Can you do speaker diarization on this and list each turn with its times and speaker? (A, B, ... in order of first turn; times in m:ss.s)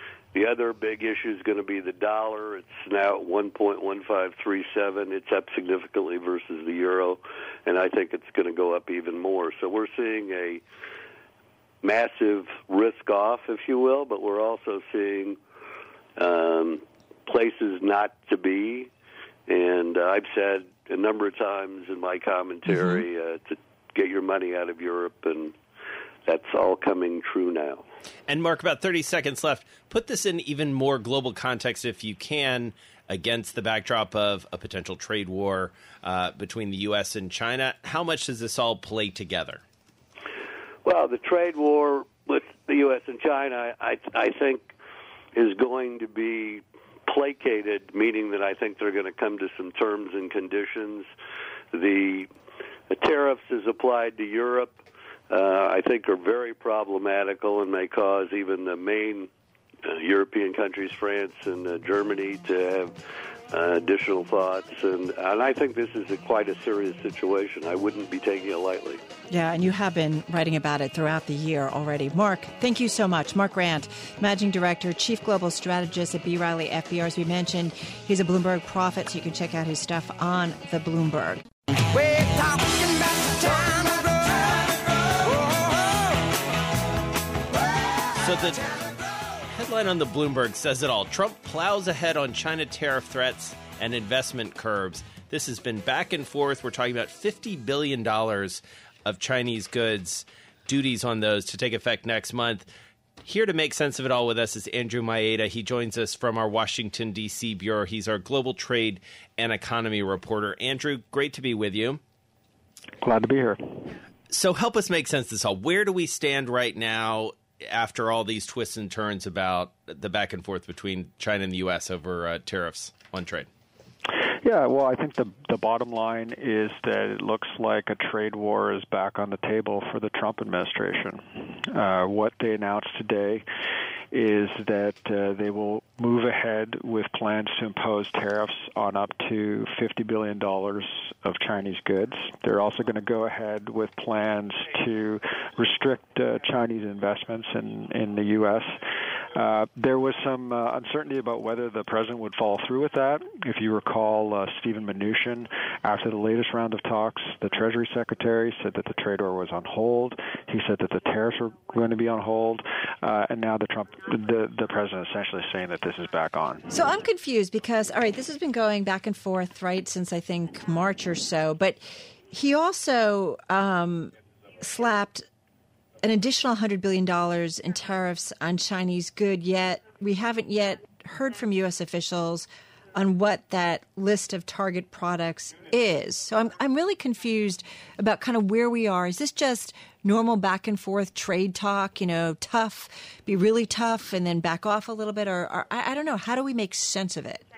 0:00.3-0:10.6 A
0:11.8-0:15.4 A
0:16.2-0:18.9 A
0:19.5-0:25.6 A
0:22.7-0:23.0 B
0:26.2-0:27.8 A
0:28.3-0:39.6 C
0:40.8-0:44.7 A
0:45.3-0:51.1 A
0:51.7-0:52.3 A
0:52.9-0:54.8 A
0:55.3-0:59.3 A
0:59.8-1:02.9 A
1:03.5-1:09.0 A
1:09.3-1:21.4 B
1:21.9-1:26.3 D
1:27.6-1:28.5 D
1:28.2-1:28.7 C
1:29.5-1:42.7 C
1:43.2-1:52.0 C
1:53.0-1:53.9 E
1:54.3-2:03.5 C
2:04.4-2:13.4 E
2:14.1-2:46.7 E
2:46.7-2:55.2 B
2:56.0-3:17.4 B